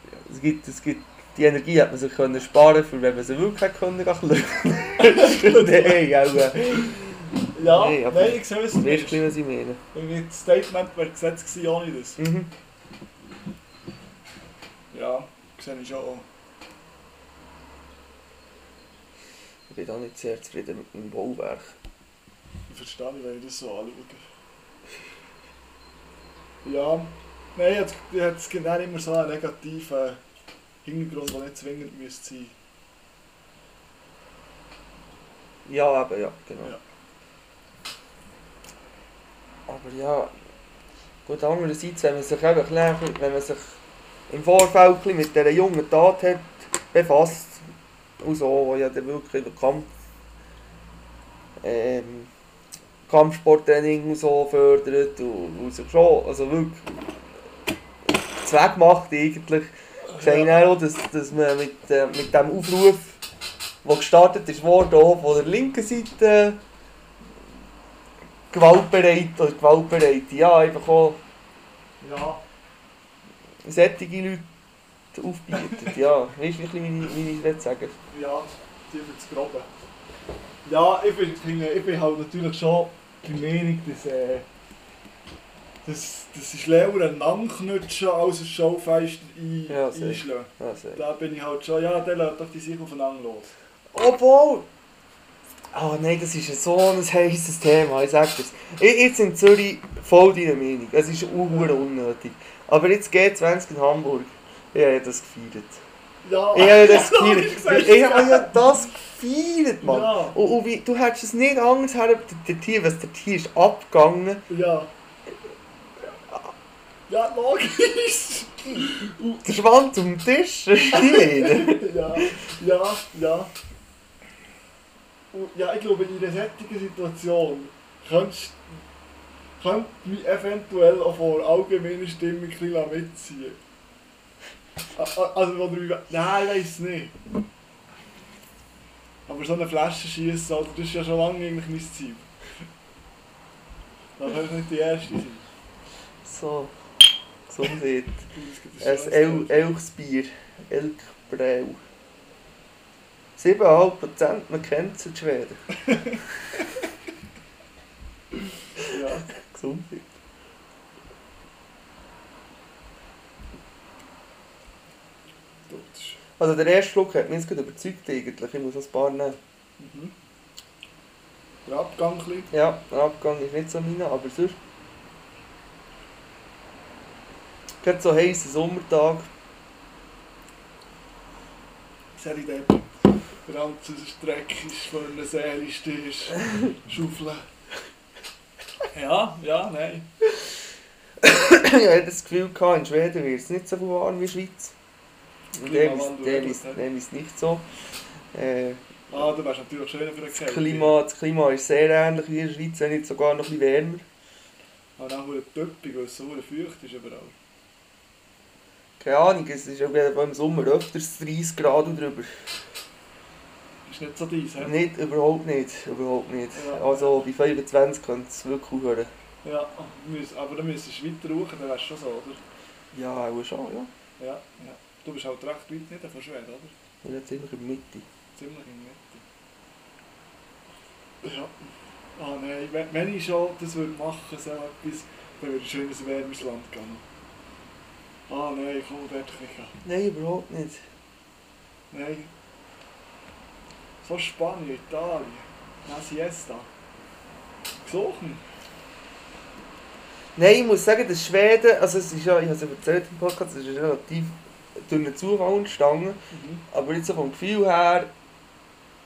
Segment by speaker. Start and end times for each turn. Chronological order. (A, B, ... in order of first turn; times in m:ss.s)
0:00.2-0:06.9 A
0:05.0-0:09.2 B
0:07.6-0:09.8 A
0:09.9-0:12.2 B
0:12.2-0:12.5 A
0:14.9-0:16.3 B
0:19.7-0:21.7 A
0:22.7-0:24.2 B
0:26.6-0:30.2 B
0:30.8-0:32.6 B
0:35.7-0:36.8 A
0:39.7-0:40.3 A
0:41.3-0:43.8 A
0:44.3-0:47.6 A
0:48.2-0:49.9 A
0:51.6-0:52.3 A
0:53.1-0:57.0 A
0:58.4-1:03.2 A
1:00.1-1:00.7 B
1:03.8-1:06.6 A
1:08.5-1:11.2 A
1:12.0-1:12.4 B
1:13.6-1:14.5 A
1:15.1-1:18.0 A
1:18.1-1:19.7 B
1:20.6-1:24.5 B
1:25.8-1:33.5 B
1:29.7-1:31.0 A
1:33.9-1:34.7 A
1:35.7-1:45.8 A
1:46.2-1:48.9 B
1:46.5-1:54.4 A
1:49.8-1:50.4 B
1:54.5-1:54.9 B
1:57.1-1:59.4 B
1:59.4-2:02.4 A
2:00.9-2:03.5 B
2:05.3-2:08.8 B
2:09.6-2:13.6 B
2:15.0-2:17.2 B
2:19.3-2:22.3 B
2:24.2-2:25.5 B
2:26.2-2:26.7 A
2:27.5-2:28.2 A
2:28.3-2:29.7 B
2:28.8-2:31.8 A
2:33.4-2:35.6 A
2:38.9-2:39.3 B
2:38.9-2:40.1 A
2:45.7-2:46.2 B
2:46.4-2:49.4 A
2:49.8-2:50.1 B
2:51.6-2:52.5 B
2:52.5-2:54.6 A
2:57.8-2:59.3 A
3:02.2-3:07.5 B
3:08.9-3:10.1 B
3:11.2-3:14.7 A
3:15.5-3:16.8 B
3:15.5-3:17.7 A
3:18.3-3:18.8 A
3:19.1-3:21.0 B
3:20.3-3:24.0 A
3:25.0-3:27.4 B
3:29.0-3:32.4 A
3:33.9-3:34.8 B
3:34.6-3:39.1 A
3:36.5-3:37.3 B
3:39.4-3:42.4 B
3:42.9-3:43.9 A
3:44.2-3:46.7 B
3:47.0-3:48.0 A
3:48.4-3:49.2 B
3:51.2-3:57.0 B
3:58.3-3:59.8 B
3:59.8-4:00.8 A
4:01.9-4:02.3 B
4:04.0-4:06.7 B
4:07.8-4:08.4 B
4:10.4-4:18.1 A
4:16.3-4:16.6 B